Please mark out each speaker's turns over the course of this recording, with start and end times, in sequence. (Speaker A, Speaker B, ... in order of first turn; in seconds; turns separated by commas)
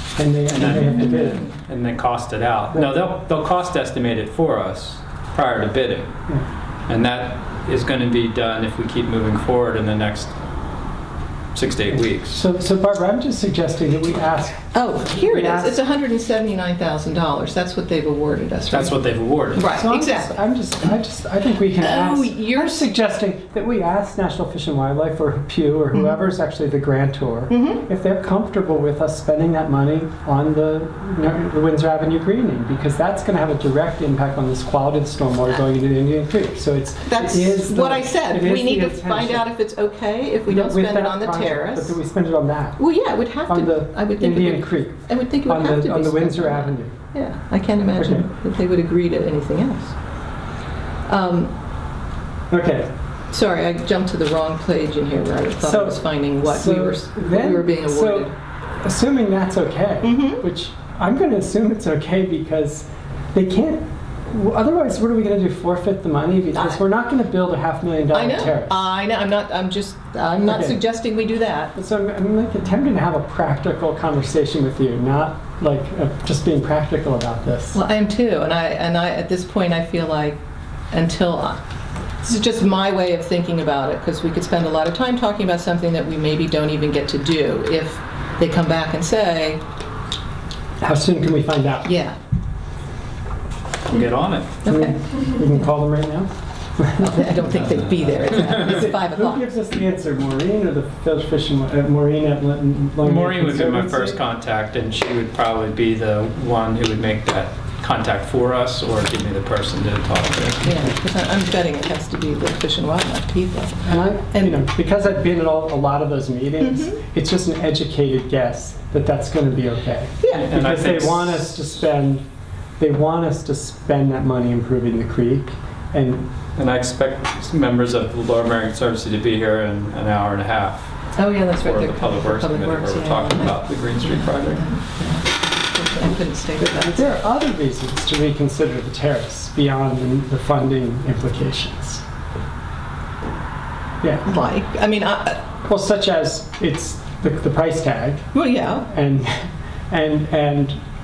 Speaker A: 0.1-1.4, Speaker B: 0.5-6.1, Speaker B: 6.9-10.3, Speaker B: 11.5-12.3, Speaker A: 11.9-15.8, Speaker C: 14.7-19.0, Speaker B: 18.7-19.7, Speaker C: 19.5-20.4, Speaker A: 19.7-39.5, Speaker C: 21.8-22.9, Speaker C: 27.5-27.8, Speaker C: 37.0-42.0, Speaker A: 40.5-42.8, Speaker C: 42.8-49.9, Speaker A: 43.5-46.9, Speaker A: 48.0-48.3, Speaker C: 51.1-51.5, Speaker A: 52.5-52.9, Speaker C: 53.3-58.3, Speaker A: 55.6-58.3, Speaker A: 58.8-68.9, Speaker C: 60.0-60.4, Speaker C: 66.5-66.8, Speaker C: 68.1-71.7, Speaker A: 70.4-70.8, Speaker A: 71.8-77.8, Speaker C: 77.7-80.4, Speaker C: 80.9-81.6, Speaker C: 82.2-89.6, Speaker A: 90.8-91.9, Speaker C: 91.8-92.2, Speaker B: 93.9-94.6, Speaker C: 94.6-95.6, Speaker A: 94.7-97.8, Speaker C: 97.0-99.4, Speaker B: 97.6-98.8, Speaker A: 98.4-104.2, Speaker B: 103.0-110.7, Speaker C: 110.6-113.8, Speaker A: 113.8-122.2, Speaker C: 114.3-114.6, Speaker C: 116.6-117.0, Speaker C: 120.2-120.5, Speaker B: 120.3-121.5, Speaker A: 122.8-126.3, Speaker B: 126.5-130.9, Speaker C: 131.2-137.2, Speaker B: 131.6-134.6, Speaker A: 136.6-142.0, Speaker C: 144.2-145.4, Speaker A: 145.6-148.3, Speaker C: 148.3-148.8, Speaker A: 148.8-150.8